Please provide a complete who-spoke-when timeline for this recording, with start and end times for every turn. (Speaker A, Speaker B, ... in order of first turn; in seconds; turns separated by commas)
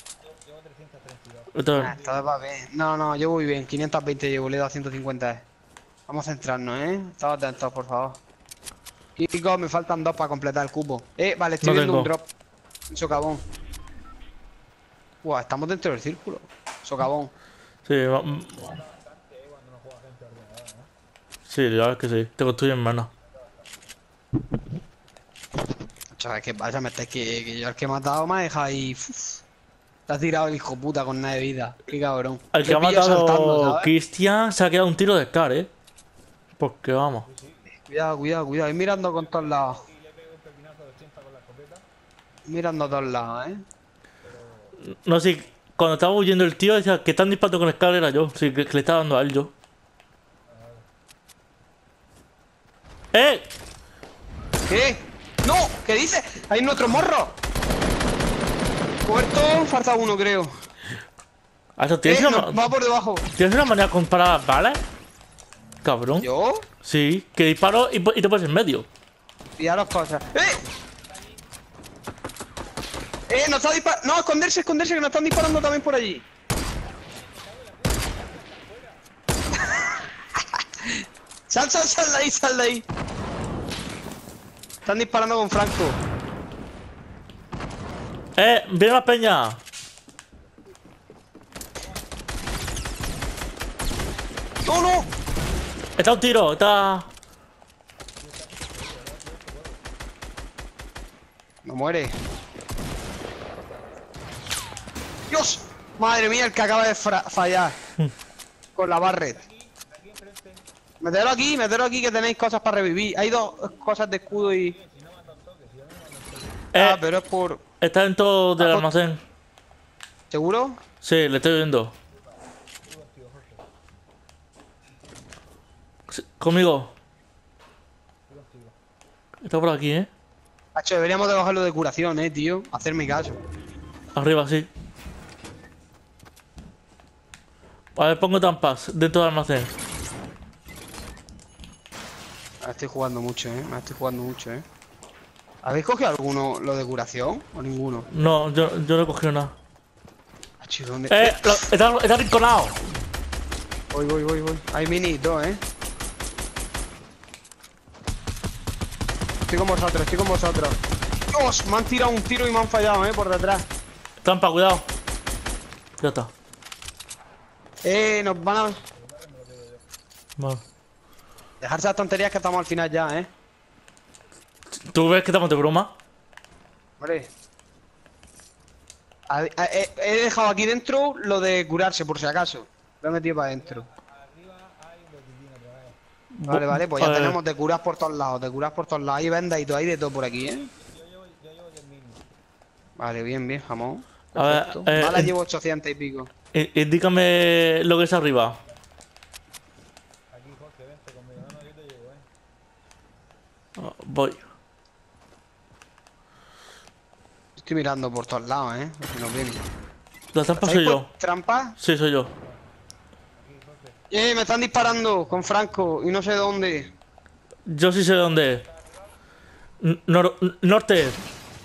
Speaker A: 0.2-2.2, Speaker B: 1.5-1.9, Speaker C: 1.8-5.4, Speaker C: 6.1-8.2, Speaker C: 9.2-12.3, Speaker B: 11.6-12.1, Speaker C: 12.9-13.4, Speaker C: 15.2-17.3, Speaker B: 17.8-18.8, Speaker A: 18.6-20.9, Speaker B: 21.5-23.1, Speaker C: 26.1-29.4, Speaker C: 30.1-33.9, Speaker B: 32.5-35.7, Speaker B: 36.6-37.2, Speaker A: 37.3-37.6, Speaker C: 37.8-39.8, Speaker A: 39.3-41.8, Speaker C: 42.5-43.6, Speaker A: 44.2-44.8, Speaker B: 44.8-49.5, Speaker B: 53.1-53.5, Speaker C: 54.7-57.3, Speaker C: 59.0-60.5, Speaker B: 61.8-62.7, Speaker C: 62.0-63.2, Speaker B: 63.3-64.8, Speaker B: 65.8-66.2, Speaker C: 66.2-66.6, Speaker B: 66.8-68.8, Speaker C: 69.6-70.6, Speaker C: 73.3-76.2, Speaker A: 77.2-79.0, Speaker C: 79.5-80.1, Speaker C: 81.5-82.8, Speaker C: 84.8-86.0, Speaker B: 88.4-89.6, Speaker C: 94.6-95.1, Speaker B: 96.0-97.1, Speaker A: 98.2-99.8, Speaker C: 101.6-102.1, Speaker C: 105.3-107.8, Speaker C: 108.8-109.4, Speaker A: 109.5-110.6, Speaker C: 111.0-114.8, Speaker A: 114.4-116.7, Speaker B: 116.7-117.0, Speaker C: 116.8-117.6, Speaker B: 117.8-119.2, Speaker C: 118.6-118.9, Speaker C: 120.3-120.8, Speaker B: 121.0-121.9, Speaker A: 122.9-123.6, Speaker B: 126.1-126.9, Speaker A: 128.3-128.7, Speaker B: 129.4-130.1, Speaker C: 130.8-133.4, Speaker B: 134.1-134.7, Speaker B: 138.0-139.7, Speaker C: 142.6-144.6, Speaker C: 145.6-148.1, Speaker B: 148.1-149.5, Speaker C: 150.6-151.7, Speaker B: 151.1-152.8, Speaker C: 153.9-155.6, Speaker C: 159.5-160.8, Speaker C: 161.3-163.7, Speaker B: 164.2-164.8, Speaker B: 166.0-166.3, Speaker C: 167.8-168.8, Speaker A: 169.2-169.8, Speaker C: 171.6-173.3, Speaker B: 174.7-175.9, Speaker C: 177.0-177.3, Speaker C: 179.3-183.8, Speaker A: 183.7-185.9, Speaker B: 186.4-187.4, Speaker C: 186.5-190.7, Speaker A: 190.8-192.2, Speaker C: 193.0-196.3, Speaker B: 194.3-195.3, Speaker B: 196.5-198.6, Speaker A: 200.3-202.2, Speaker B: 203.8-204.4, Speaker C: 207.6-209.6, Speaker B: 210.3-211.1, Speaker C: 210.6-211.7, Speaker B: 211.8-212.3, Speaker A: 213.4-213.9, Speaker C: 214.1-216.9, Speaker B: 217.7-218.6, Speaker B: 219.8-221.2